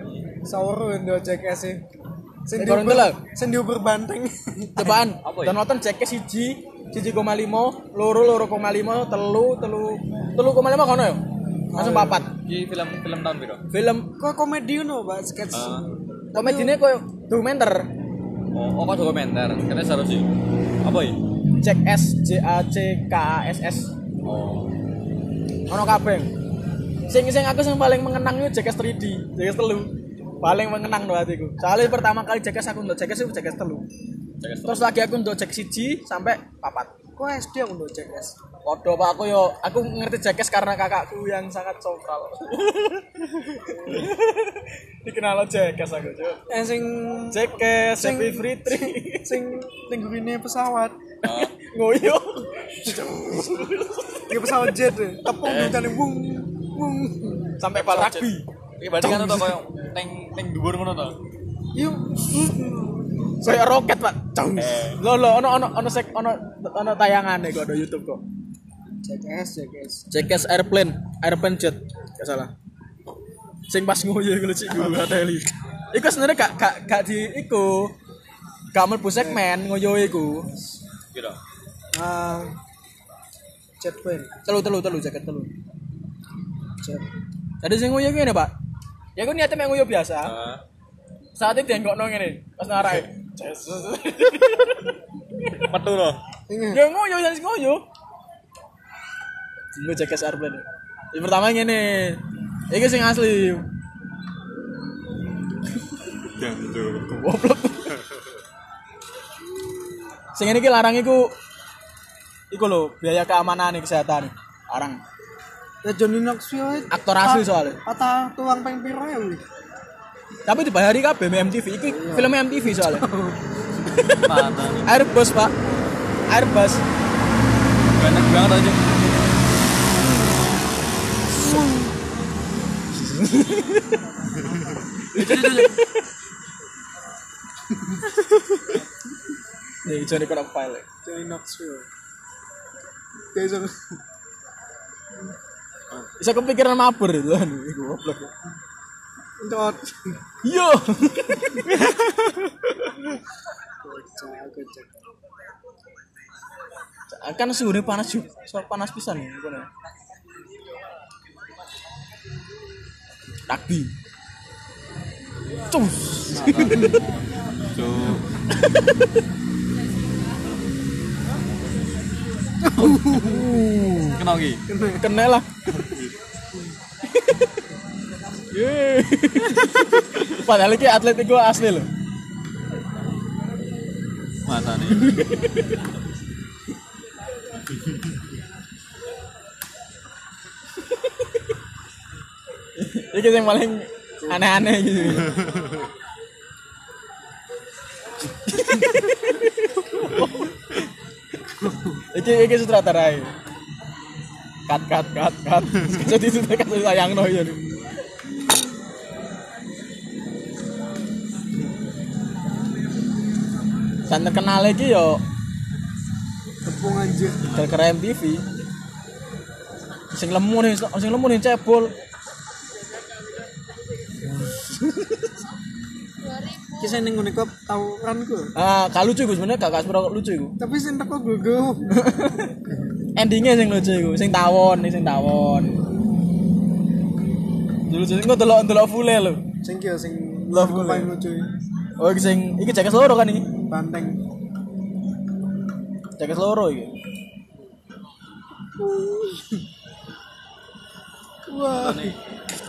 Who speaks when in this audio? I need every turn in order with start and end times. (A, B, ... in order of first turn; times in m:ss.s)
0:00.4-0:01.8 A
0:02.4-0:05.0 A
0:02.6-0:03.2 B
0:04.8-0:11.2 B
0:05.2-0:05.6 C
0:11.7-0:12.2 A
0:11.7-0:12.3 B
0:12.4-0:13.6 C
0:13.7-0:14.1 B
0:14.2-0:16.7 A
0:15.5-0:15.8 C
0:16.3-0:17.9 B
0:18.5-0:20.3 C
0:20.8-0:21.2 C
0:21.6-0:23.9 B
0:24.2-0:24.7 C
0:25.7-0:26.3 B
0:27.1-0:33.8 B
0:34.4-0:34.9 C
0:34.6-0:36.9 B
0:37.2-0:38.4 A
0:38.6-0:46.4 B
0:46.5-0:51.0 A
0:47.3-0:49.4 B
0:51.2-0:51.5 C
0:51.2-0:54.7 B
0:52.9-0:53.4 A
0:54.3-0:57.6 A
0:55.4-0:55.8 C
0:57.6-0:58.5 B
0:57.7-0:58.3 C
0:58.8-1:01.2 C
0:59.0-0:59.5 B
1:01.7-1:03.1 A
1:03.4-1:08.2 B
1:04.6-1:05.0 C
1:09.0-1:10.1 A
1:10.1-1:12.5 B
1:13.7-1:17.9 B
1:18.7-1:20.5 B
1:19.2-1:19.4 A
1:20.4-1:20.8 A
1:21.1-1:21.4 C
1:21.9-1:22.5 A
1:23.8-1:24.3 A
1:24.4-1:25.5 B
1:26.8-1:27.1 A
1:27.6-1:28.5 B
1:29.2-1:30.3 B
1:30.2-1:30.6 C
1:31.4-1:35.6 B
1:35.6-1:36.2 C
1:36.5-1:36.8 A
1:36.7-1:37.8 B
1:39.7-1:43.6 B
1:46.3-1:47.1 C
1:47.1-1:47.9 B
1:50.3-1:51.3 B
1:52.5-1:55.0 B
1:55.8-1:59.4 A
1:56.9-1:57.8 B
2:00.4-2:03.1 B
2:01.9-2:03.4 A
2:03.9-2:04.3 B
2:04.1-2:04.9 C
2:04.8-2:05.5 B
2:06.3-2:06.8 B
2:08.0-2:09.1 C
2:11.4-2:11.9 A
2:13.0-2:14.0 B
2:15.1-2:16.0 B
2:15.1-2:15.7 C
2:18.2-2:18.6 B
2:19.8-2:20.8 B
2:21.0-2:21.9 A
2:23.3-2:24.0 A
2:26.2-2:28.3 B
2:29.4-2:30.2 A
2:30.4-2:32.9 B
2:33.8-2:34.9 A
2:37.1-2:39.7 B
2:43.5-2:43.9 B
2:45.7-2:47.0 B
2:46.3-2:47.2 C
2:46.4-2:47.0 A
2:47.7-2:48.3 C
2:48.5-2:49.1 B
2:52.6-2:53.6 A
2:52.8-2:54.2 B
2:54.2-2:54.6 C
2:54.7-2:55.1 A
2:55.0-2:55.5 B
2:55.7-2:56.1 C
2:57.1-2:57.4 B
2:58.5-3:01.9 B
3:04.4-3:05.1 C
3:04.9-3:05.8 B
3:12.8-3:15.4 B
3:18.4-3:20.8 B
3:21.6-3:22.0 A
3:22.1-3:23.3 B
3:24.7-3:27.6 B
3:34.1-3:35.2 B
3:36.6-3:37.5 A
3:37.5-3:38.4 B
3:40.1-3:41.9 B
3:44.5-3:45.3 B
3:46.7-3:48.5 A
3:48.5-3:50.5 B
3:50.6-3:52.1 A
3:51.9-3:52.5 B
3:53.1-3:55.8 B
3:57.9-3:59.4 B
3:59.6-4:01.5 A
4:00.5-4:01.1 B
4:02.0-4:03.5 B
4:03.7-4:04.2 A
4:06.2-4:06.9 B
4:08.8-4:09.6 A
4:11.4-4:12.2 A
4:11.8-4:12.2 C